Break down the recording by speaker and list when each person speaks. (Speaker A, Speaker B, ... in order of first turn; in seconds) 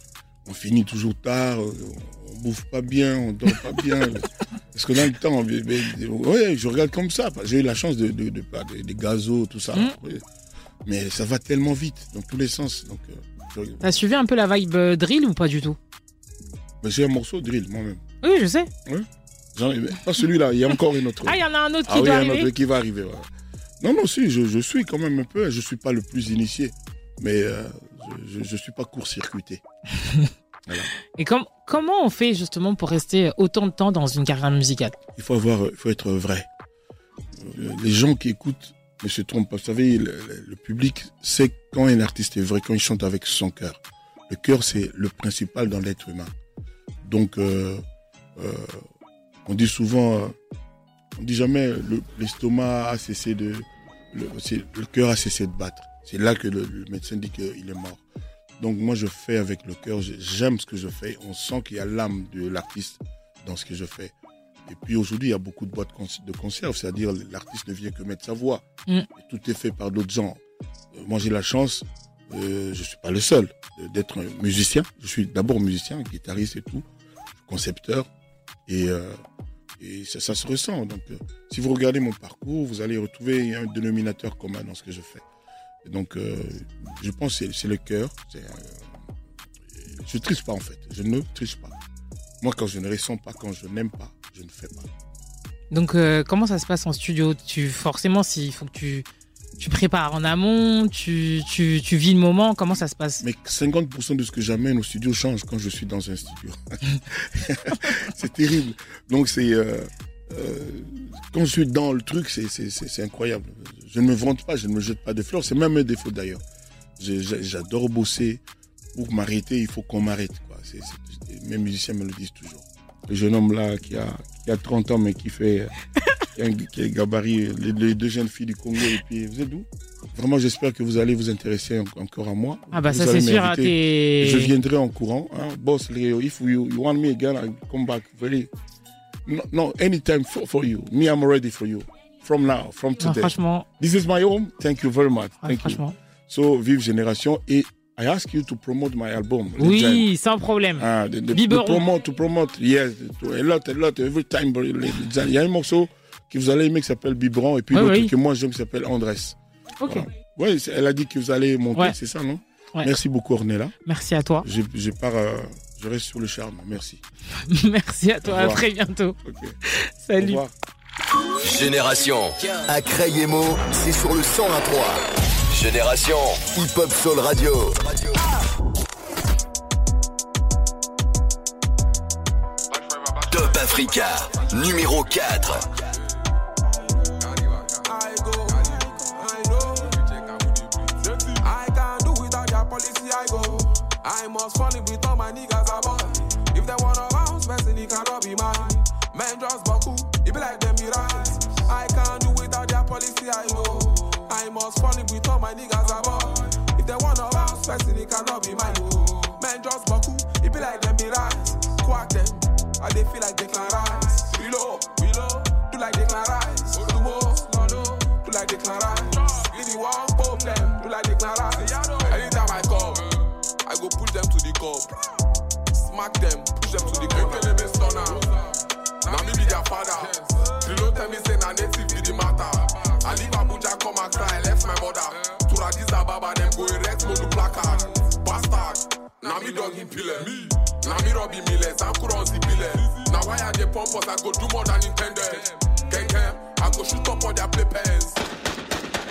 Speaker A: 0.4-10.2, 10.8-13.9, 16.8-18.0, 18.9-23.3, 23.8-29.6, 35.1-36.5, 37.4-46.3, 47.0-47.8, 48.4-48.8, 49.5-50.3, 51.1-58.0, 58.6-64.1, 64.7-68.6, 69.2-70.4, 70.9-76.8, 77.4-78.1, 78.7-79.2, 79.8-85.2, 85.8-88.8, 89.7-91.7, 92.4-94.9, 103.2-106.6, 107.1-116.4, 117.0-118.4, 118.9-125.7, 126.3-138.5, 139.2-150.1, 150.8-163.7, 164.4-167.0, 168.3-168.7, 169.2-169.6, 170.2-170.5
Speaker B: 13.8-15.8, 18.2-18.7, 21.2-22.5, 30.0-30.3, 31.1-35.0, 95.7-99.0, 99.6-103.2, 132.7-134.5, 143.0-143.7, 145.4-145.9, 149.6-151.8, 157.7-158.1, 163.8-164.5, 167.5-170.4
Speaker C: 171.4-178.3, 183.3-185.6
Speaker D: 182.8-183.9, 187.2-223.1, 223.7-225.1, 225.7-248.2